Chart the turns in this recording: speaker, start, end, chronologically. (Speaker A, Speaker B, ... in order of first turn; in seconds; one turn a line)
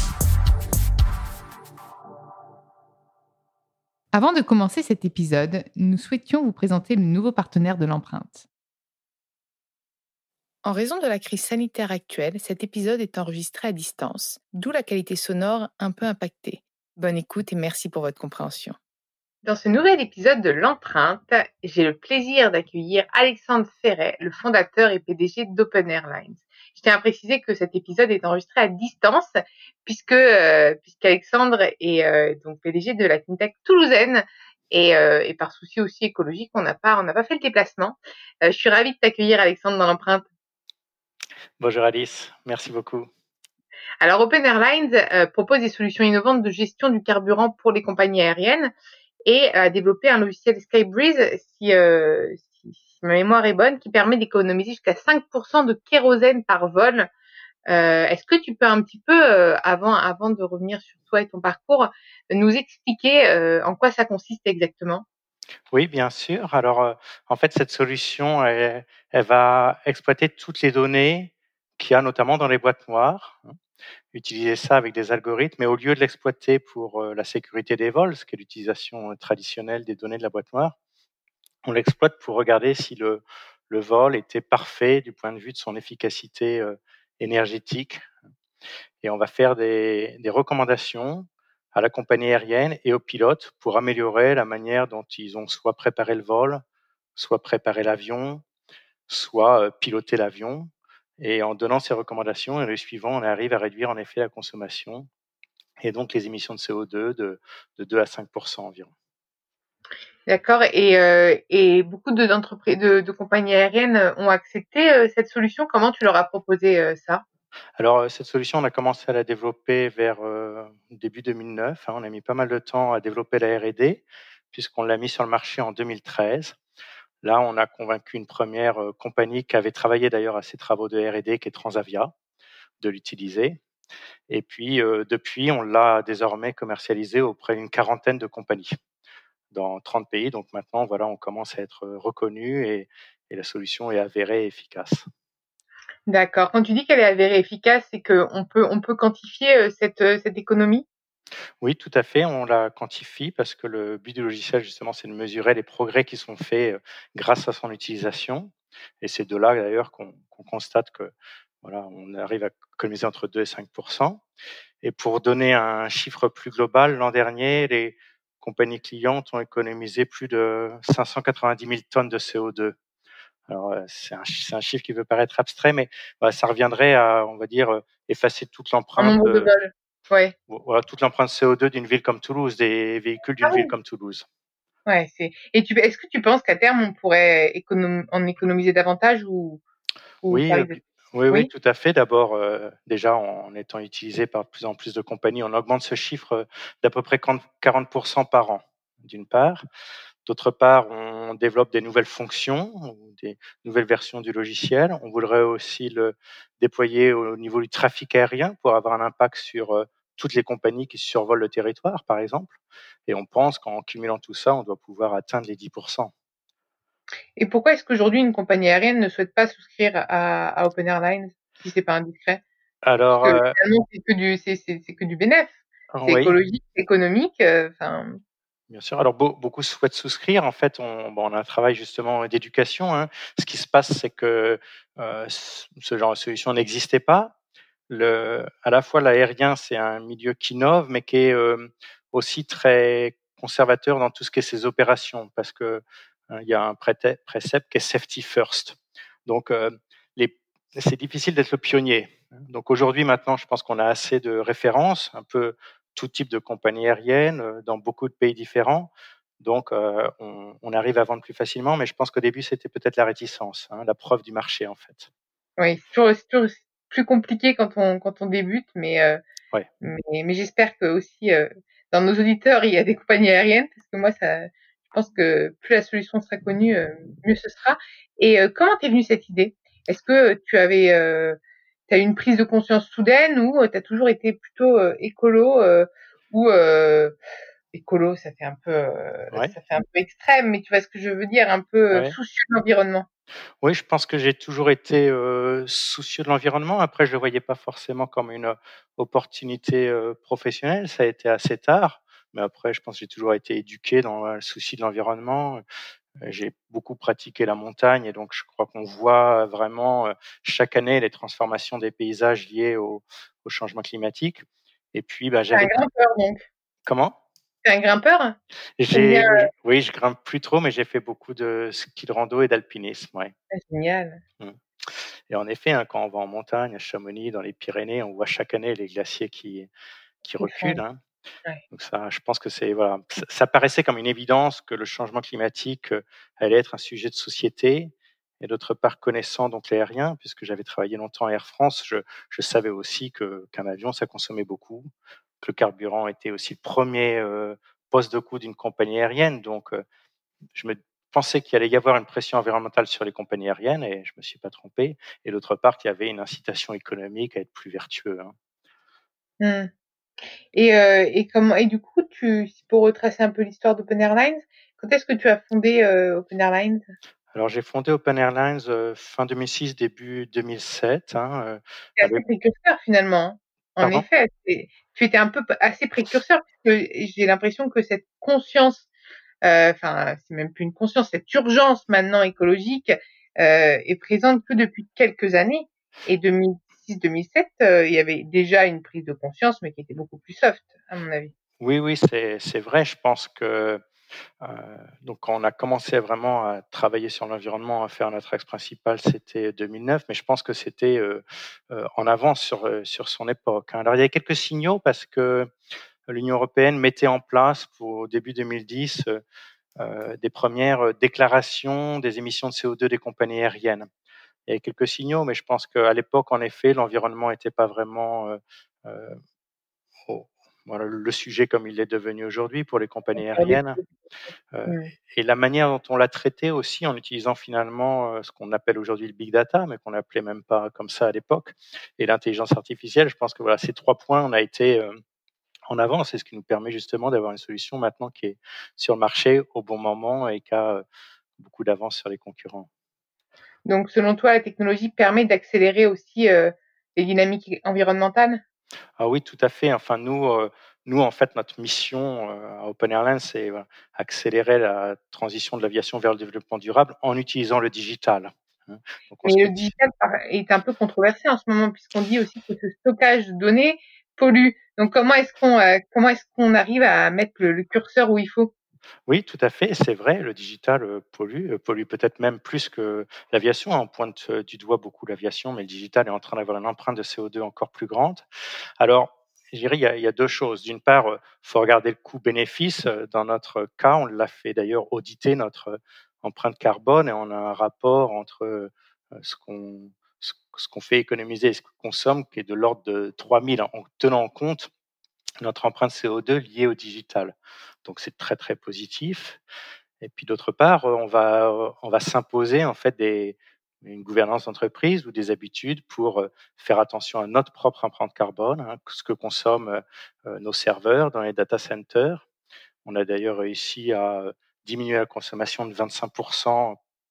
Speaker A: 4.1-8.5
Speaker A: 10.7-18.8
Speaker A: 19.4-40.3
Speaker B: 41.6-43.1
Speaker A: 44.0-48.7
Speaker A: 49.3-57.1
Speaker A: 57.7-65.0
Speaker B: 65.7-73.5
Speaker B: 74.1-80.7
Speaker B: 81.7-88.0
Speaker B: 89.0-96.6
Speaker B: 97.2-98.4
Speaker B: 99.1-105.1
Speaker B: 105.8-108.9
Speaker A: 110.3-117.2
Speaker B: 117.8-126.6
Speaker B: 127.2-132.1
Speaker B: 132.8-133.6
Speaker B: 134.3-138.7
Speaker B: 139.5-145.1
Speaker A: 146.1-150.9
Speaker B: 151.6-164.2
Speaker B: 164.8-172.8
Speaker B: 173.5-179.5
Speaker A: 179.0-180.3
Speaker B: 180.5-184.3
Speaker A: 183.4-183.7
Speaker A: 184.9-189.6
Speaker A: 190.2-190.8
Speaker B: 190.3-199.6
Speaker B: 200.3-216.1
Speaker A: 217.4-222.4
Speaker B: 222.8-223.6
Speaker A: 223.2-228.2
Speaker B: 225.9-226.4
Speaker B: 228.7-237.3
Speaker B: 237.9-265.1
Speaker A: 265.6-269.2
Speaker A: 269.8-287.1
Speaker A: 287.7-293.1
Speaker B: 293.6-305.6
Speaker B: 306.2-315.8
Speaker A: 315.5-316.4
Speaker B: 316.9-317.1
Speaker A: 317.6-318.4
Speaker B: 318.8-323.3
Speaker A: 318.9-319.5
Speaker A: 323.5-324.2
Speaker B: 324.4-329.7
Speaker B: 330.2-331.0
Speaker A: 330.4-330.8
Speaker B: 331.7-344.9
Speaker B: 345.4-349.8
Speaker B: 350.6-358.3
Speaker A: 359.4-359.7
Speaker A: 360.5-366.8
Speaker B: 367.3-372.2
Speaker A: 372.0-378.9
Speaker B: 373.8-374.1
Speaker A: 379.4-391.3
Speaker B: 391.6-393.8
Speaker B: 394.4-405.5
Speaker B: 406.1-409.2
Speaker B: 409.8-413.9
Speaker B: 414.5-419.2
Speaker B: 420.1-423.8
Speaker A: 423.1-423.8
Speaker B: 424.5-435.0
Speaker B: 435.7-440.8
Speaker B: 441.4-442.7
Speaker A: 443.7-448.4
Speaker B: 449.0-459.8
Speaker A: 459.2-468.5
Speaker B: 469.1-478.2
Speaker B: 478.8-494.7
Speaker B: 495.4-499.4
Speaker B: 500.0-512.2
Speaker B: 512.9-516.8